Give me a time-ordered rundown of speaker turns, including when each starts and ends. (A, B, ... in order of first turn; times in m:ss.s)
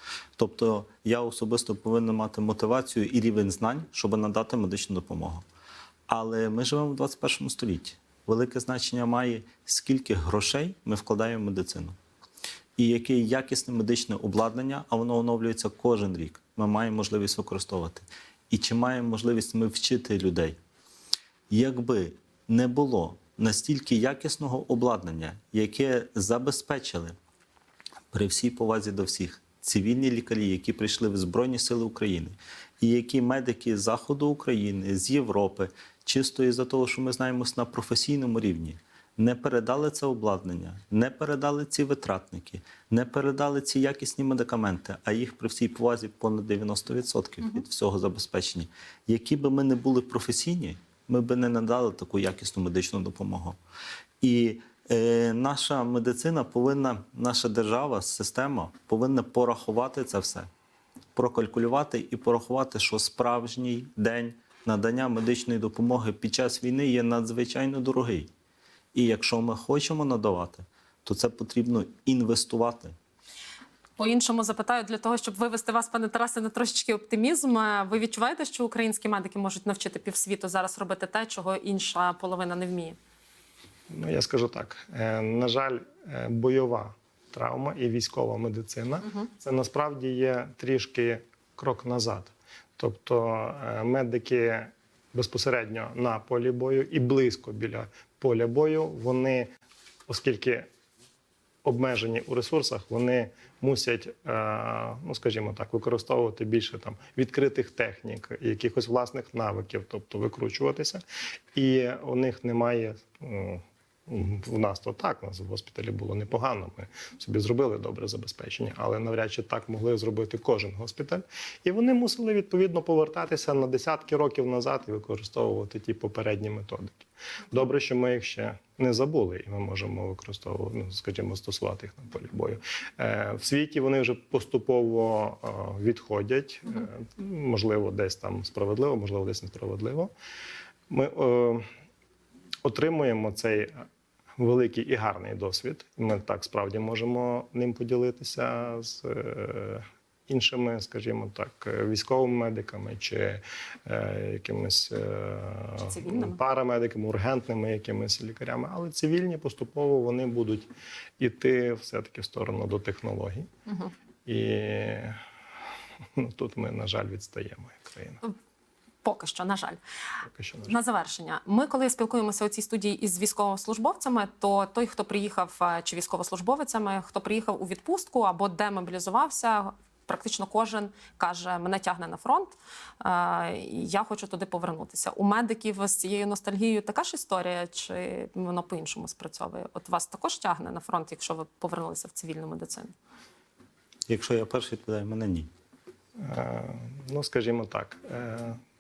0:00.4-0:05.4 A
0:06.1-0:12.0 A
0:12.8-0:20.6 A
0:21.5-0:27.2 A
0:28.1-0:53.6 A
0:54.2-1:00.5 A
1:01.2-1:08.3 A
1:09.0-1:13.0 A
1:14.0-1:23.0 B
1:23.9-1:39.5 C
1:40.1-1:40.7 C
1:41.6-1:51.0 C
1:51.6-2:20.1 C
2:20.9-2:21.6 C
2:22.6-2:23.8 C
2:24.4-2:40.7 C
2:35.9-2:36.4 B
2:41.2-2:43.5 C
2:44.3-2:45.2 C
2:46.2-2:48.2 C
2:49.0-2:49.8 B
2:50.3-2:50.7 C
2:50.6-3:12.9 B
3:14.1-3:15.5 A
3:16.2-3:18.6 C